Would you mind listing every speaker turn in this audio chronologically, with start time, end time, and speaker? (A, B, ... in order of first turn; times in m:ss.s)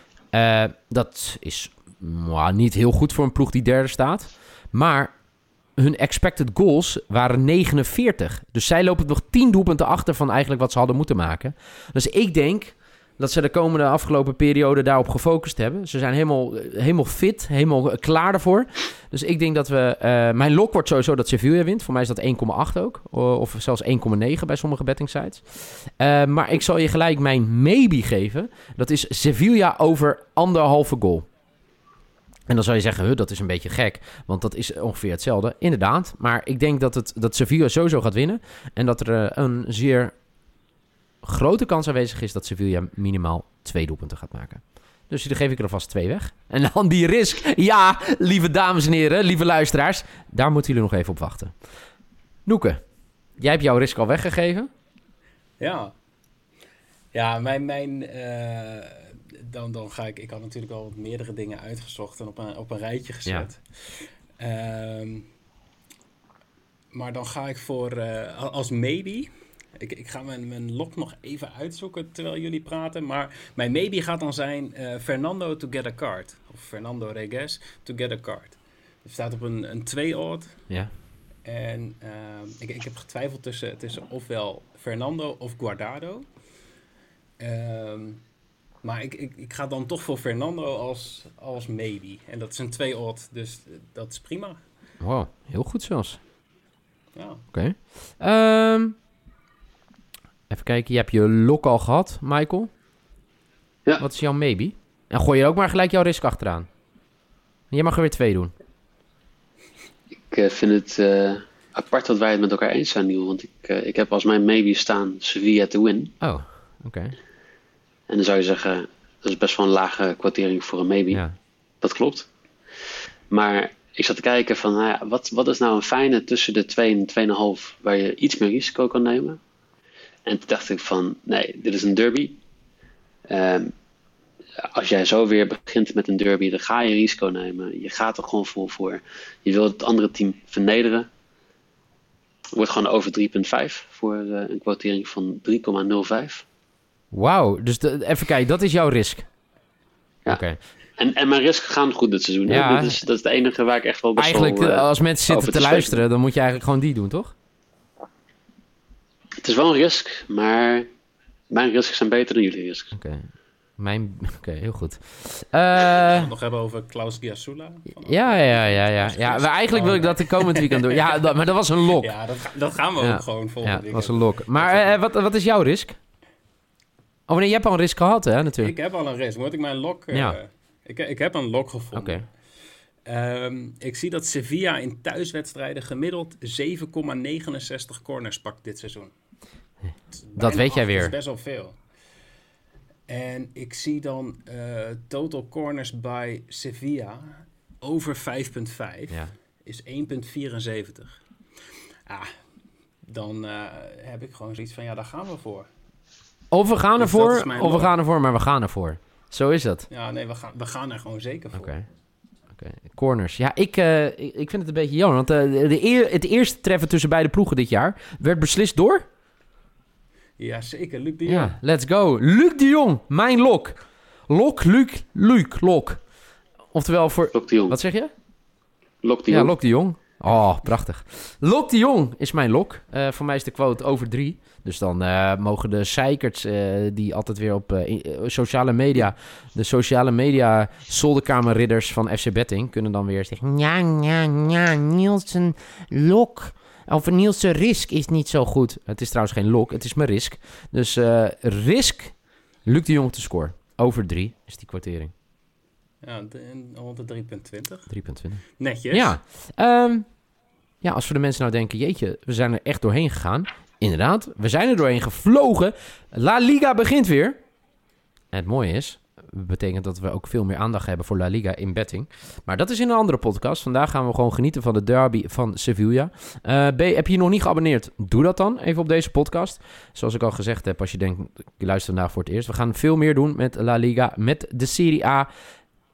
0:00.3-0:05.2 A
0:05.8-0:31.3 A
0:32.5-0:40.1 A
0:41.2-0:51.5 A
0:52.5-0:52.8 A
0:53.4-0:54.7 A
0:55.6-0:55.9 B
0:57.1-1:05.3 B
1:06.9-1:20.6 B
1:21.4-1:26.3 B
1:27.4-1:28.2 B
1:28.8-1:34.6 B
1:35.0-1:36.2 A
1:37.2-1:37.4 B
1:37.5-1:39.0 A
1:40.5-1:42.7 A
1:44.0-1:46.7 A
1:47.7-1:48.5 A
1:50.3-1:56.1 C
1:56.2-1:57.2 A
1:58.1-2:01.2 C
2:01.8-2:02.3 C
2:03.3-2:09.4 C
2:10.2-2:12.4 C
2:13.3-2:13.7 C
2:14.6-2:21.1 C
2:22.6-2:26.4 C
2:27.1-2:29.3 A
2:30.3-2:30.6 A
2:31.0-2:36.0 C
2:32.5-2:33.0 A
2:34.2-2:37.3 A
2:39.4-2:40.9 C
2:41.5-2:42.9 C
2:42.9-2:46.3 A
2:45.9-2:51.4 B
2:48.0-2:52.1 A
2:51.9-2:55.0 B
2:53.0-2:56.0 A
2:57.3-2:58.8 A
2:58.6-3:02.3 B
3:00.1-3:00.4 A
3:01.9-3:02.2 A
3:03.0-3:09.1 B
3:10.1-3:11.8 B
3:10.4-3:11.1 A
3:13.1-3:21.2 B
3:23.1-3:25.7 B
3:26.5-3:29.9 A
3:27.0-3:27.9 B
3:29.9-3:31.8 B
3:31.6-3:31.8 A
3:32.5-3:39.1 A
3:40.4-3:41.6 B
3:41.3-3:46.0 A
3:46.7-3:48.1 A
3:47.3-3:47.8 C
3:49.0-3:49.5 C
3:49.3-4:15.1 A
4:16.0-4:17.9 B
4:17.9-4:20.1 A
4:18.6-4:19.2 B
4:20.8-4:27.4 A
4:28.3-4:45.3 A